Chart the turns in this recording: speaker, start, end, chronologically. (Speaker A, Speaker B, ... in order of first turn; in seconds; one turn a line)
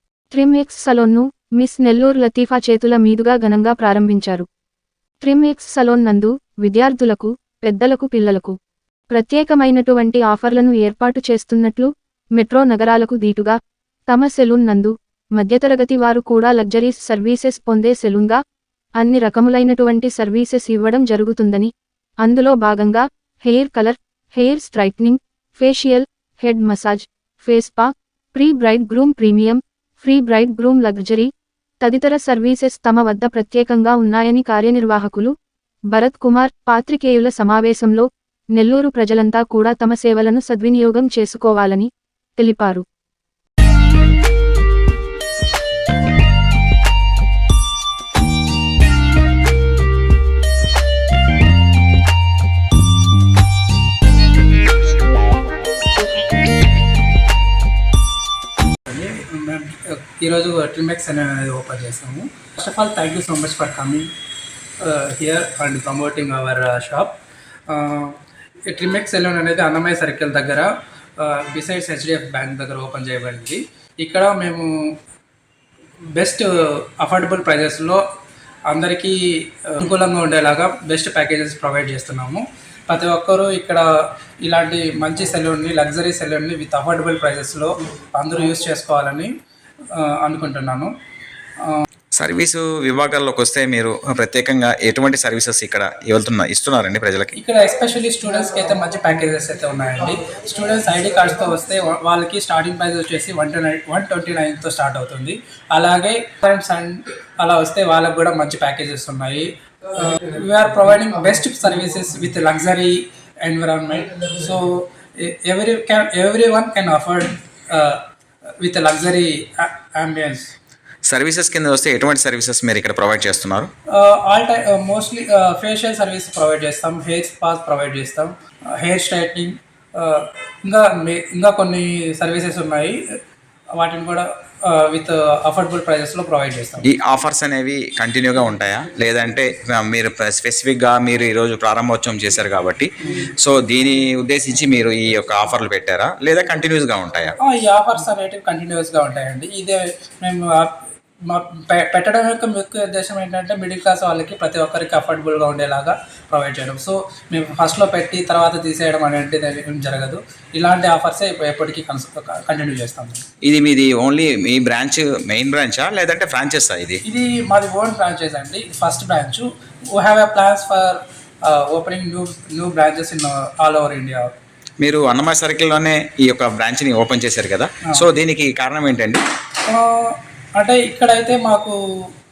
Speaker A: 0.3-4.5
Speaker A: 5.2-8.6
Speaker A: 9.1-13.6
Speaker A: 14.1-18.4
Speaker A: 19.0-21.7
Speaker A: 22.2-31.3
Speaker A: 31.8-35.3
Speaker A: 35.9-42.8
Speaker B: 58.9-64.1
Speaker B: 64.8-67.2
Speaker B: 67.7-74.7
Speaker B: 76.2-78.0
Speaker B: 78.7-83.9
Speaker B: 84.4-89.3
Speaker B: 89.9-90.9
Speaker C: 92.2-97.3
Speaker B: 97.3-118.0
Speaker B: 118.6-120.5
Speaker C: 121.1-123.7
Speaker B: 123.9-133.0
Speaker B: 133.8-136.9
Speaker C: 136.8-147.3
Speaker B: 147.4-163.2
Speaker C: 163.4-167.0
Speaker B: 167.1-174.3
Speaker C: 174.8-179.2
Speaker B: 179.7-182.1